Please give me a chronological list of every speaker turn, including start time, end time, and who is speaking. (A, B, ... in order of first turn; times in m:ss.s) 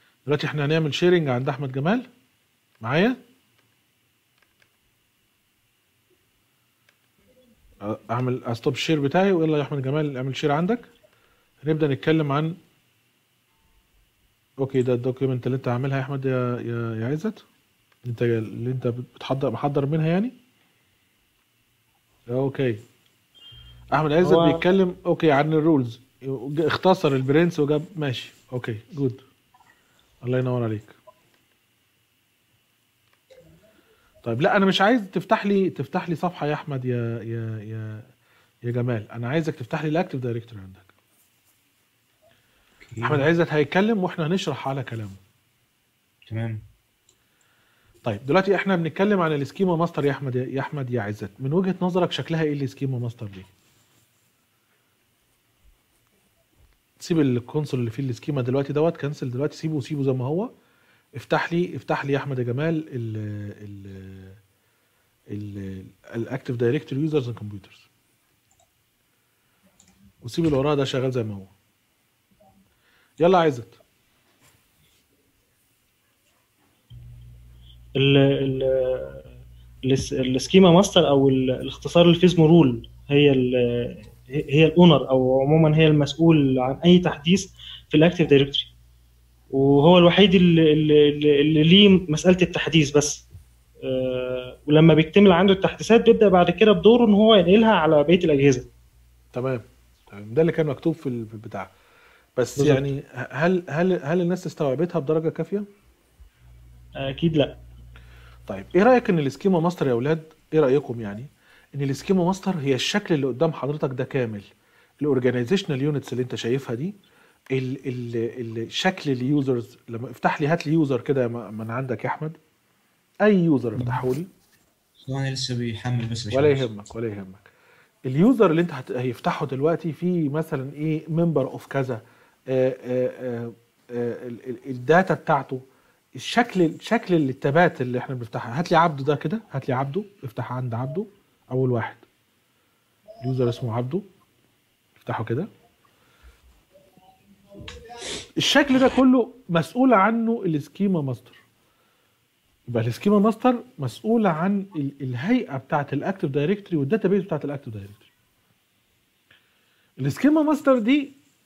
0:00.2-0:02.1 A
0:02.8-0:03.2 A
0:07.8-0:10.9 A
0:11.6-0:12.6 A
0:14.6-0:17.4 A
0:18.0-0:20.3 A
0:22.3-0:22.8 A
0:23.9-0:29.2 A
0:24.2-0:24.6 B
0:30.2-0:31.0 A
0:34.2-0:38.0 A
0:38.6-0:40.9 A
0:42.8-0:43.3 C
0:43.0-0:45.2 A
0:46.3-0:46.6 C
0:48.0-0:53.5 A
0:57.0-1:00.5 A
1:01.1-1:04.4 A
1:05.3-1:07.9 A
1:10.2-1:11.5 A
1:13.2-1:13.8 A
1:18.0-1:19.2 B
1:19.8-1:28.7 B
1:29.5-1:33.2 B
1:33.9-1:38.7 B
1:39.3-1:41.7 A
1:42.4-1:45.7 A
1:42.6-1:42.8 B
1:47.0-1:47.6 B
1:48.5-1:54.5 A
1:55.0-1:57.0 A
1:57.5-2:02.4 A
2:03.2-2:04.3 A
2:05.0-2:06.7 C
2:06.3-2:07.5 A
2:08.0-2:22.0 A
2:23.2-2:24.0 A
2:25.0-2:25.5 A
2:28.4-2:31.4 A
2:32.7-2:38.1 A
2:40.0-2:41.2 A